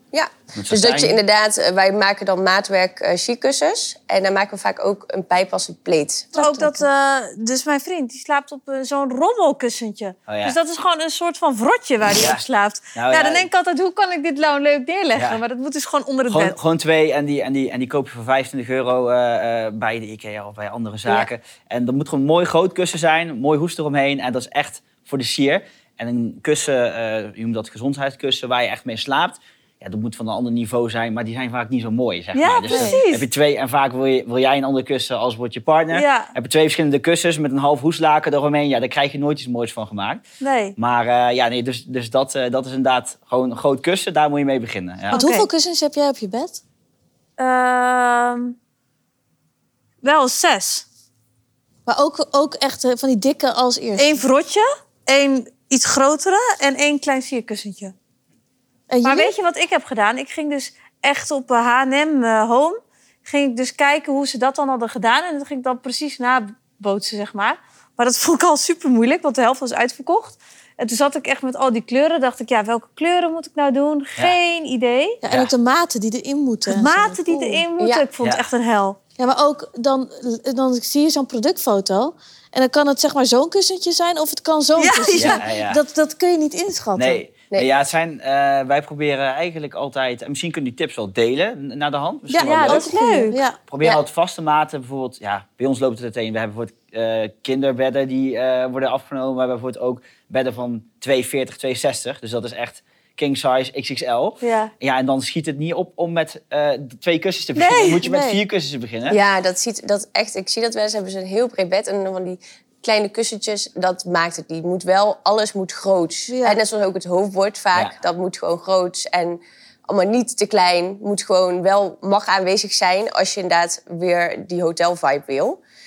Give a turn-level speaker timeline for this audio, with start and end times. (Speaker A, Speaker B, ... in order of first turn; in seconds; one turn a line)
Speaker A: 0.1-6.8
Speaker B: 0.5-1.2
Speaker C: 6.3-16.6
Speaker B: 10.3-10.6
Speaker B: 12.0-12.4
Speaker B: 12.9-13.5
Speaker B: 15.1-15.4
Speaker B: 16.3-40.2
Speaker C: 32.3-33.3
Speaker D: 32.7-33.0
Speaker C: 35.9-36.3
Speaker C: 40.4-40.8
Speaker B: 40.8-45.2
Speaker C: 45.1-45.5
Speaker D: 45.1-46.6
Speaker C: 47.4-48.5
Speaker C: 50.0-50.8
Speaker D: 51.9-54.2
Speaker C: 54.0-57.9
Speaker D: 58.9-59.3
Speaker C: 59.0-75.2
Speaker D: 75.2-77.7
Speaker C: 76.7-79.0
Speaker A: 77.8-78.0
Speaker B: 78.2-78.5
Speaker D: 79.2-87.2
Speaker C: 84.8-85.4
Speaker B: 85.1-85.8
Speaker B: 87.0-92.9
Speaker C: 92.3-93.4
Speaker D: 92.3-93.6
Speaker B: 93.7-109.2
Speaker C: 104.4-104.7
Speaker C: 107.5-108.1
Speaker D: 108.0-108.4
Speaker A: 109.1-125.6
Speaker D: 116.3-116.6